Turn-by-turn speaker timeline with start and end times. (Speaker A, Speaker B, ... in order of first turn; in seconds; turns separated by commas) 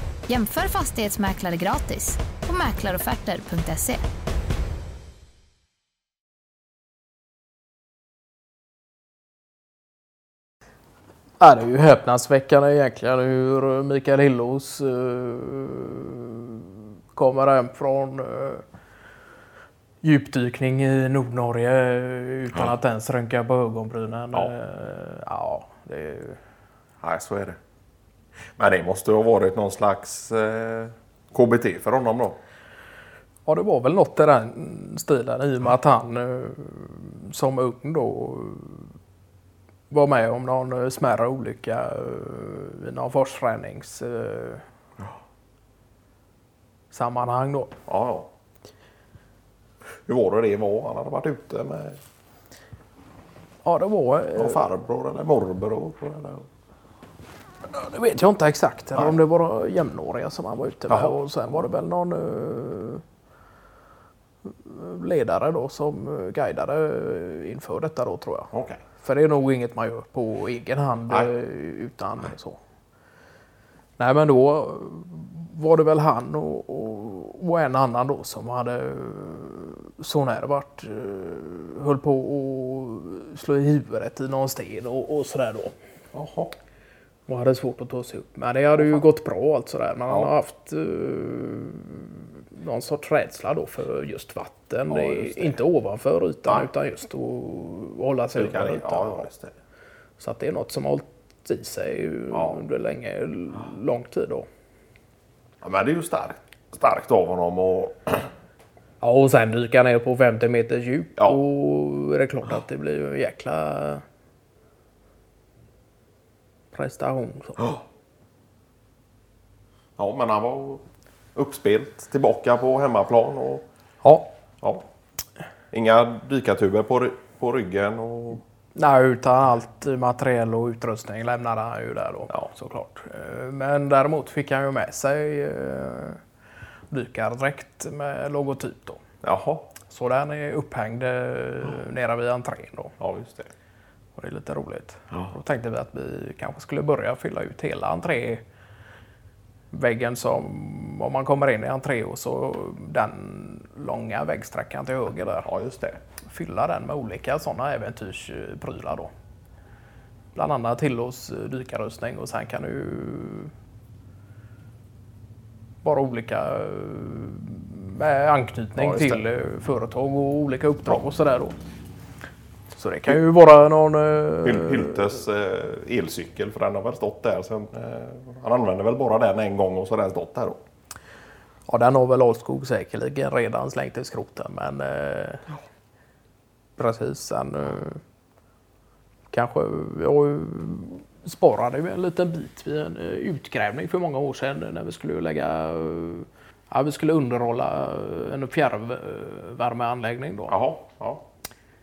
Speaker A: 0.3-4.0, Speaker B: 11.4-18.6, Speaker B: 20.0-26.4, Speaker C: 27.0-27.6, Speaker C: 28.6-32.4, Speaker B: 33.5-38.9, Speaker B: 39.9-44.6, Speaker B: 46.9-47.7, Speaker C: 47.9-48.3, Speaker C: 50.0-52.0, Speaker B: 53.6-54.7, Speaker C: 54.3-56.5, Speaker B: 57.6-63.0, Speaker C: 60.9-61.7, Speaker B: 64.5-72.6, Speaker C: 68.5-68.8, Speaker B: 74.0-85.7, Speaker C: 86.1-86.5, Speaker B: 87.3-99.3, Speaker C: 88.8-89.0, Speaker C: 94.9-95.6, Speaker C: 98.3-99.5, Speaker B: 100.2-104.5, Speaker C: 102.3-102.6, Speaker C: 105.6-108.3, Speaker B: 109.0-114.0, Speaker B: 116.7-117.7, Speaker C: 120.0-120.8, Speaker C: 121.3-123.6, Speaker B: 124.0-124.3, Speaker C: 125.7-128.4, Speaker B: 128.7-136.2, Speaker B: 136.9-139.0, Speaker C: 139.2-139.7, Speaker B: 139.8-143.0, Speaker C: 143.0-143.5, Speaker B: 144.2-148.4, Speaker B: 149.7-155.5, Speaker C: 155.4-156.0, Speaker B: 156.2-159.1, Speaker B: 160.3-163.5, Speaker B: 165.8-171.6, Speaker C: 168.8-169.2, Speaker B: 172.7-175.0, Speaker C: 174.4-180.6, Speaker B: 181.7-185.5, Speaker B: 186.8-188.0, Speaker B: 189.3-200.6, Speaker C: 200.5-201.2